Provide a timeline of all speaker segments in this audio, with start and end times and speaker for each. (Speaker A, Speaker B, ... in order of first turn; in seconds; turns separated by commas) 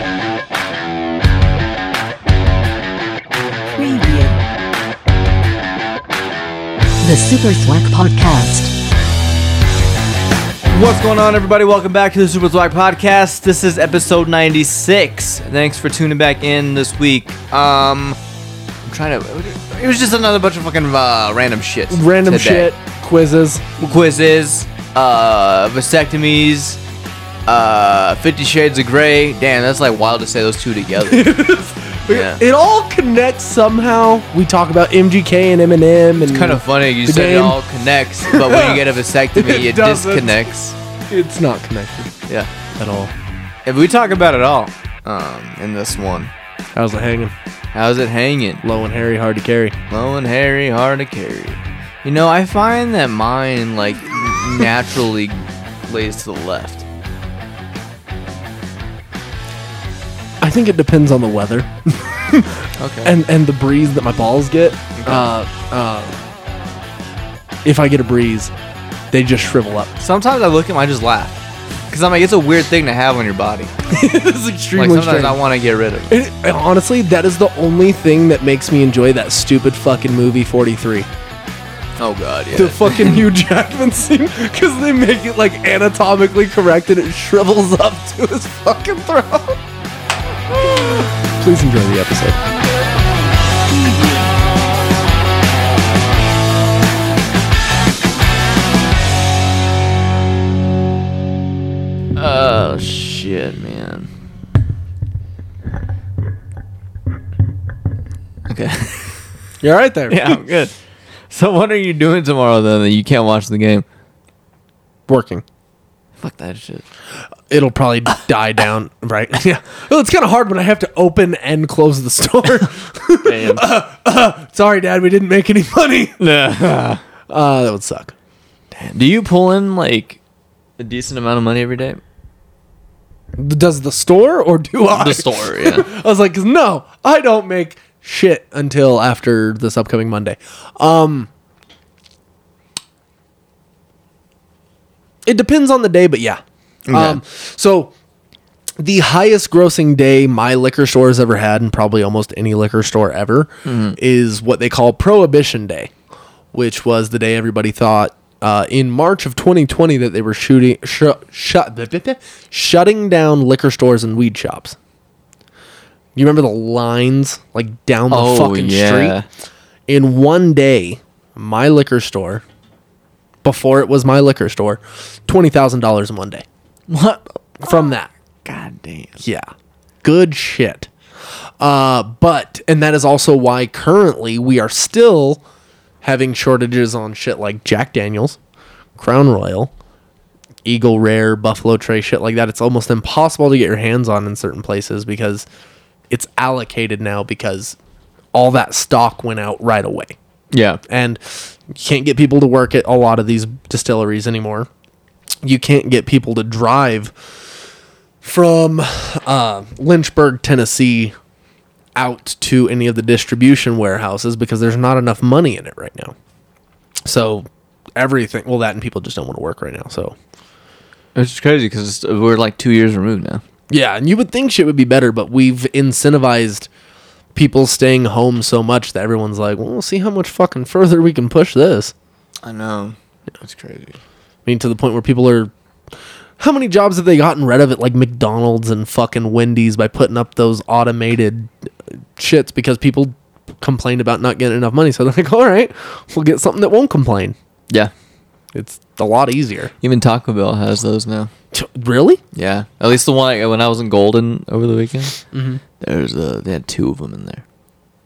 Speaker A: 3.7-4.4, Speaker A: 7.0-8.7, Speaker B: 10.7-18.2, Speaker B: 18.9-22.7, Speaker C: 21.9-23.7, Speaker B: 23.8-26.8, Speaker B: 27.5-31.4, Speaker C: 31.1-37.6, Speaker B: 32.1-32.4, Speaker B: 36.2-40.8, Speaker C: 38.3-40.4, Speaker C: 41.1-42.1, Speaker C: 42.8-43.1, Speaker B: 43.7-46.3, Speaker C: 46.7-47.3, Speaker B: 47.7-48.6, Speaker C: 48.6-49.8, Speaker B: 49.9-56.9, Speaker C: 60.4-66.2, Speaker B: 62.8-63.1, Speaker B: 65.0-65.3, Speaker C: 67.6-68.5, Speaker C: 69.1-69.9, Speaker B: 70.0-73.7, Speaker C: 73.9-75.4, Speaker B: 74.8-76.2, Speaker C: 76.1-81.1, Speaker B: 82.0-83.3, Speaker C: 82.5-89.6, Speaker C: 90.6-92.4, Speaker B: 102.2-104.1, Speaker B: 108.5-109.2, Speaker C: 109.6-110.4, Speaker B: 110.1-110.7, Speaker B: 111.3-113.8, Speaker C: 115.1-115.4, Speaker B: 116.2-116.8, Speaker C: 117.5-126.2, Speaker B: 123.2-123.7, Speaker B: 126.2-127.0, Speaker C: 127.3-128.1, Speaker B: 128.7-130.2, Speaker B: 130.8-132.0, Speaker C: 133.4-141.3, Speaker B: 134.9-135.9, Speaker C: 145.3-147.9, Speaker B: 146.9-147.2, Speaker C: 148.8-155.9, Speaker B: 153.7-154.0, Speaker C: 156.5-164.8, Speaker C: 166.2-169.2, Speaker B: 168.1-169.3, Speaker C: 169.9-172.4, Speaker C: 173.4-176.4, Speaker B: 176.9-177.4, Speaker C: 177.6-178.1, Speaker B: 178.4-179.2, Speaker C: 179.2-179.5, Speaker C: 180.0-180.9, Speaker C: 181.6-185.4, Speaker C: 186.0-188.4, Speaker C: 189.0-189.7, Speaker C: 190.7-195.5, Speaker C: 196.1-197.8, Speaker C: 198.3-200.2, Speaker B: 200.5-200.8, Speaker C: 200.9-204.7, Speaker C: 205.4-207.2, Speaker C: 208.2-211.2, Speaker C: 212.0-216.1, Speaker C: 217.1-220.2, Speaker B: 221.2-223.4, Speaker C: 223.7-226.7, Speaker C: 227.3-231.9, Speaker B: 232.4-234.0, Speaker C: 234.5-235.5, Speaker C: 236.4-241.5, Speaker C: 242.2-247.4, Speaker C: 248.5-249.7, Speaker B: 249.8-251.3, Speaker C: 251.5-252.2, Speaker B: 252.3-255.2, Speaker C: 255.3-255.6, Speaker B: 255.8-257.4